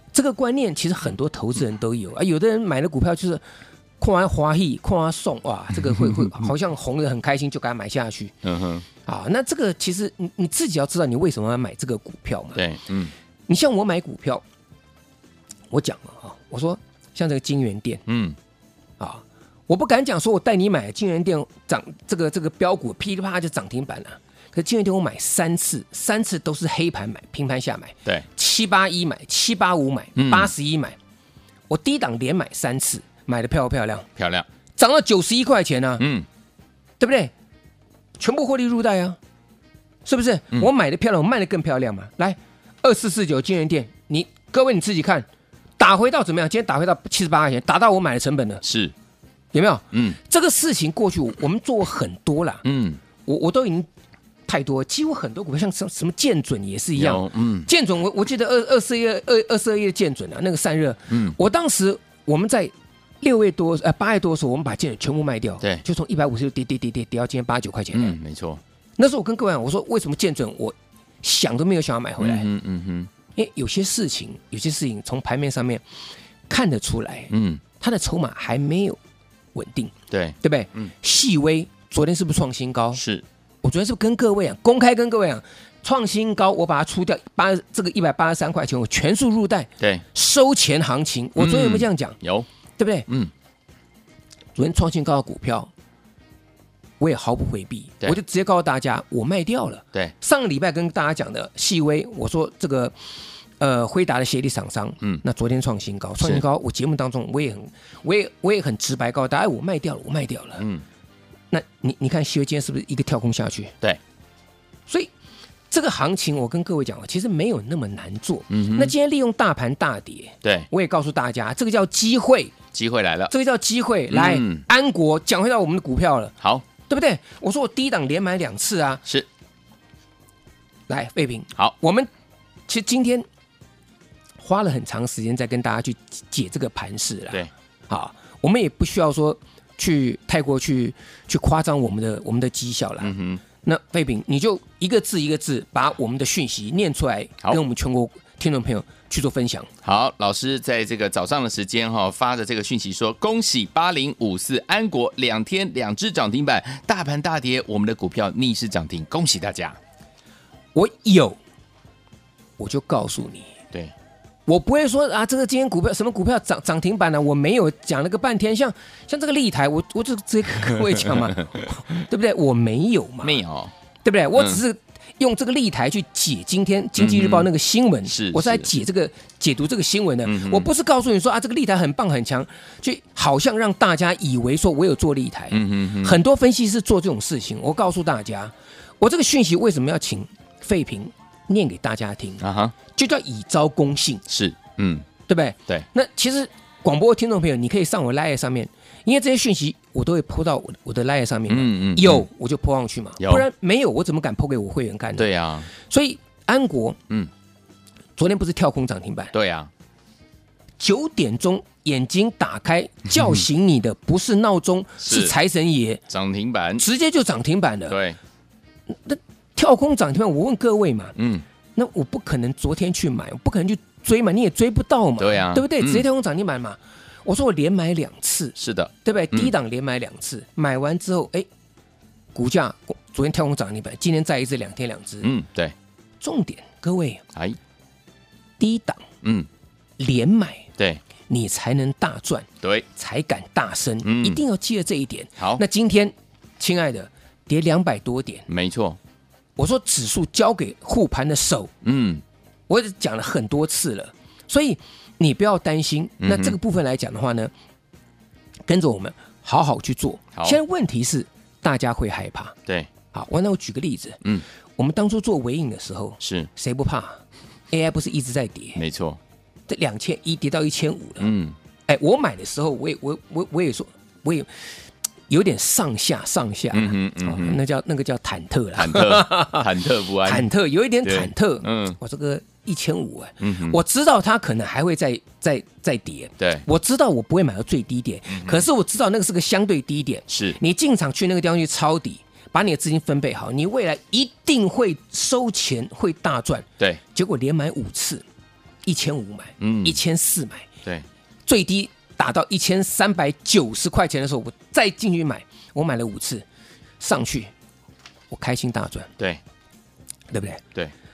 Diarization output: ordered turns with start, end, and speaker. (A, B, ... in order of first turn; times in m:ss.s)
0:00.1-0:03.4 A
0:04.0-0:08.3 A
0:05.8-0:06.5 B
0:08.4-0:08.8 B
0:09.0-0:12.6 A
0:12.5-0:13.1 B
0:13.5-0:14.4 A
0:15.7-0:18.0 A
0:18.1-0:18.4 B
0:19.0-0:31.0 A
0:30.2-0:30.5 B
0:31.7-0:34.1 A
0:34.2-0:34.4 B
0:34.8-0:36.0 A
0:36.0-0:36.3 B
0:37.0-0:37.3 A
0:38.2-0:39.2 A
0:40.0-0:45.3 A
0:45.8-0:48.6 A
0:48.6-0:48.9 B
0:49.5-0:52.6 A
0:49.9-0:50.2 B
0:52.6-0:53.0 B
0:53.2-0:53.9 A
0:54.5-1:08.2 A
0:57.0-0:57.7 B
1:01.1-1:01.4 B
1:07.9-1:08.6 B
1:09.0-1:12.5 A
1:12.2-1:13.1 B
1:13.3-1:15.8 A
1:16.5-1:19.0 A
1:17.3-1:17.6 B
1:19.5-1:23.0 A
1:20.1-1:20.9 B
1:22.9-1:23.2 B
1:23.6-1:32.2 A
1:31.4-1:32.5 B
1:32.8-1:33.1 A
1:34.5-1:35.7 A
1:37.0-1:42.9 A
1:43.6-1:50.6 A
1:50.6-1:50.8 B
1:51.5-1:53.7 A
1:55.7-2:02.5 A
1:58.5-1:58.9 B
2:00.4-2:00.7 B
2:02.7-2:03.3 B
2:03.3-2:06.3 A
2:04.1-2:04.6 B
2:06.4-2:06.6 B
2:06.8-2:09.0 A
2:10.9-2:12.1 A
2:12.7-2:13.2 A
2:14.4-2:29.7 A
2:23.0-2:23.4 B
2:29.8-2:39.8 B
2:40.7-2:41.4 A
2:42.6-2:43.5 A
2:44.5-2:53.4 A
2:53.2-2:53.7 B
2:54.0-3:14.2 A
2:54.4-2:54.6 B
2:57.0-2:57.5 B
2:58.0-2:58.7 B
3:00.2-3:00.7 B
3:05.5-3:06.2 B
3:12.4-3:12.8 B
3:14.3-3:15.1 B
3:15.3-3:27.0 A
3:21.5-3:22.3 B
3:23.2-3:23.4 B
3:25.2-3:25.7 B
3:28.2-3:29.3 A
3:29.3-3:29.7 B
3:30.8-3:36.0 A
3:35.0-3:35.3 B
3:36.1-3:36.8 B
3:36.8-3:38.0 A
3:37.9-3:38.2 B
3:38.9-3:41.2 A
3:41.2-3:41.4 B
3:41.7-3:51.5 A
3:45.2-3:46.0 B
3:48.6-3:49.5 B
3:52.3-3:55.3 A
3:55.2-3:55.7 B
3:56.2-3:57.2 A
3:58.6-3:59.0 A
3:59.2-3:59.5 B
4:00.0-4:00.7 A
4:01.3-4:08.5 A
4:02.6-4:02.8 B
4:04.0-4:04.4 B
4:05.4-4:05.6 B
4:08.5-4:09.0 B
4:09.6-4:11.7 A
4:11.8-4:12.2 B
4:12.7-4:17.5 A
4:16.2-4:16.6 B
4:18.7-4:22.6 A
4:20.3-4:20.6 B
4:23.1-4:24.2 A
4:24.8-4:27.2 A
4:26.2-4:26.5 B
4:27.7-4:28.8 A
4:28.8-4:29.2 B
4:29.7-4:31.3 A
4:31.2-4:31.6 B
4:31.9-4:34.5 A
4:35.3-4:58.2 A
4:36.7-4:37.6 B
4:38.8-4:40.5 B
4:41.0-4:42.0 B
4:43.4-4:43.8 B
4:46.4-4:46.6 B
4:48.3-4:48.6 B
4:50.3-4:50.6 B
4:58.8-5:00.7 A
4:59.6-5:00.0 B
5:01.4-5:06.4 A
5:07.0-5:07.5 A
5:08.3-5:09.1 A
5:10.3-5:10.6 A